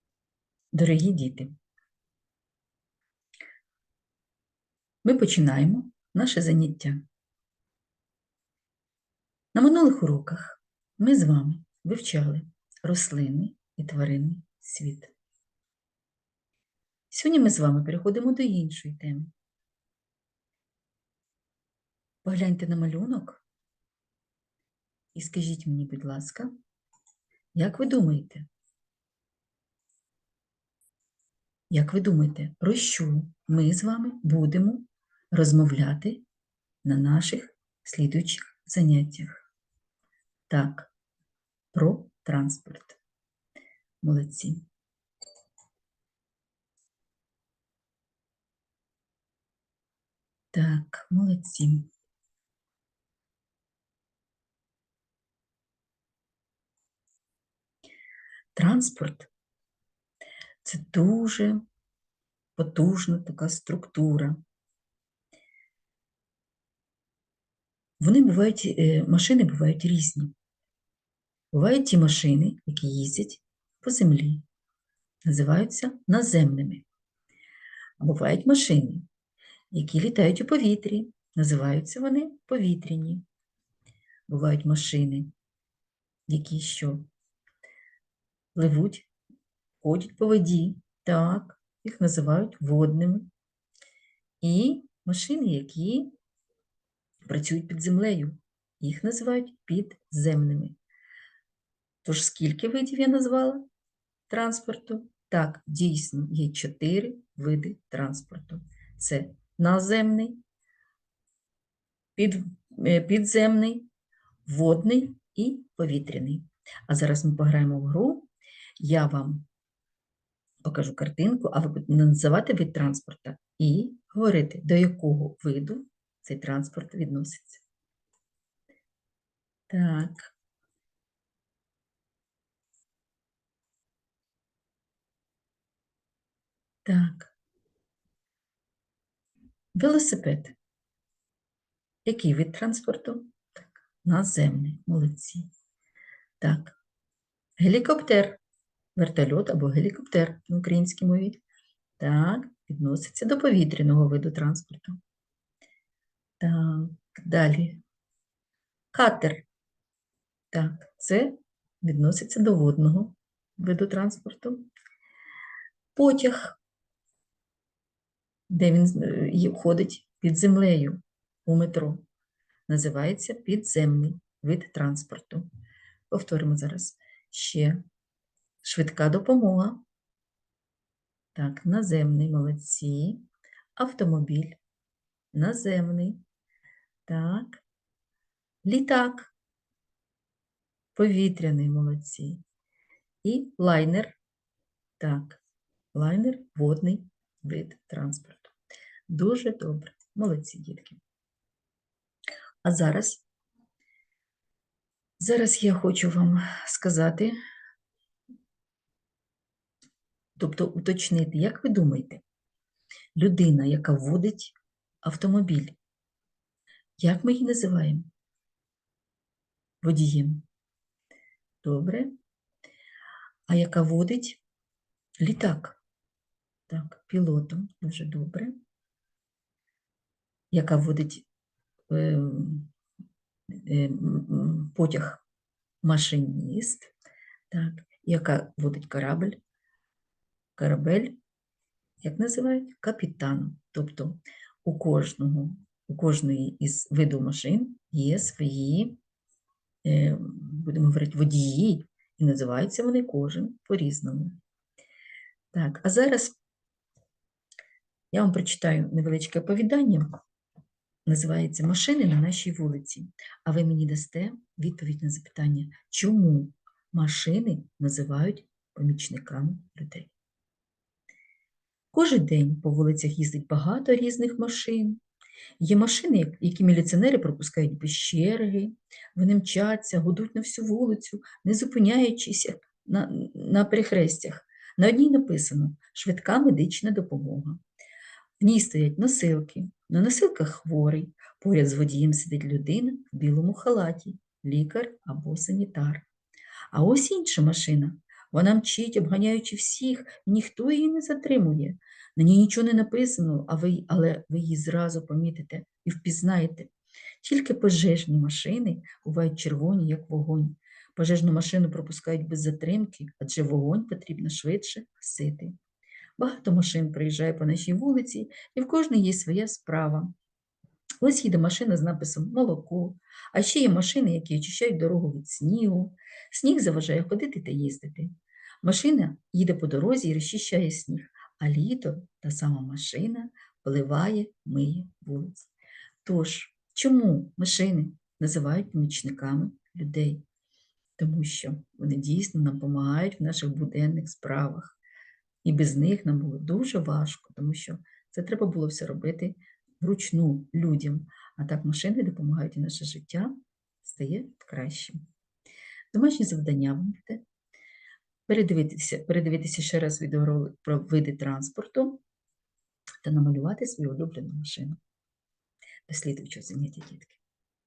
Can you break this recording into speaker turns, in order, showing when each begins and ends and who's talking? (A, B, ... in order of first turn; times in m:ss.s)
0:00.7-0:01.5 A
0:05.0-0:07.0 A
0:09.5-0:15.1 A
0:17.1-0:19.3 A
0:22.2-0:23.4 A
0:25.1-0:26.5 A
0:27.5-0:28.4 A
0:31.7-0:36.2 A
0:36.8-0:39.4 A
0:40.5-0:40.9 A
0:41.7-0:43.0 A
0:44.0-0:44.6 A
0:50.5-0:51.9 A
0:58.5-0:59.3 A
1:00.6-1:01.6 A
1:02.6-1:04.4 A
1:08.0-1:10.3 A
1:11.5-1:14.4 A
1:15.2-1:16.8 A
1:18.0-1:19.0 A
1:19.7-1:23.2 A
1:24.3-1:25.3 A
1:26.3-1:27.1 A
1:28.5-1:29.1 A
1:29.8-1:33.3 A
1:34.4-1:36.1 A
1:37.2-1:40.8 A
1:42.0-1:43.6 A
1:44.3-1:50.4 A
1:52.2-1:53.9 A
1:54.4-1:59.5 A
2:00.6-2:07.6 A
2:09.7-2:10.3 A
2:16.8-2:17.3 A
2:19.8-2:20.5 A
2:22.0-2:25.5 A
2:26.4-2:26.8 A
2:27.6-2:28.4 A
2:29.0-2:31.4 A
2:32.0-2:35.0 A
2:36.4-2:37.8 A
2:38.9-2:39.4 A
2:40.5-2:44.7 A
2:45.9-2:46.6 A
2:48.5-2:52.0 A
2:52.7-2:55.4 A
2:56.1-2:57.8 A
2:58.6-2:59.8 A
3:01.3-3:03.2 A
3:03.8-3:04.6 A
3:05.3-3:06.2 A
3:07.1-3:07.6 A
3:08.6-3:09.3 A
3:10.9-3:12.4 A
3:13.2-3:14.2 A
3:15.0-3:15.4 A
3:15.9-3:18.5 A
3:19.1-3:21.0 A
3:22.6-3:23.2 A
3:25.2-3:27.3 A
3:30.4-3:32.2 A
3:33.2-3:35.8 A
3:37.0-3:38.1 A
3:39.8-3:40.4 A
3:41.6-3:42.1 A
3:43.5-3:44.4 A
3:45.2-3:45.8 A
3:46.7-3:48.5 A
3:50.5-3:51.2 A
3:51.9-3:52.7 A
3:53.5-3:55.2 A
3:55.8-3:56.9 A
3:57.5-3:59.4 A
4:00.6-4:01.2 A
4:02.0-4:09.0 A
4:09.8-4:14.4 A
4:15.5-4:16.4 A
4:18.1-4:20.0 A
4:21.0-4:30.1 A
4:31.9-4:35.0 A
4:35.6-4:47.6 A
4:48.4-4:56.0 A
4:56.7-5:15.5 A
5:16.2-5:20.1 A
5:21.0-5:35.5 A
5:36.0-5:40.2 A
5:41.0-5:44.8 A
5:45.4-5:55.0 A
5:55.9-5:57.2 A
5:58.3-6:02.0 A
6:03.0-6:04.8 A
6:05.9-6:07.2 A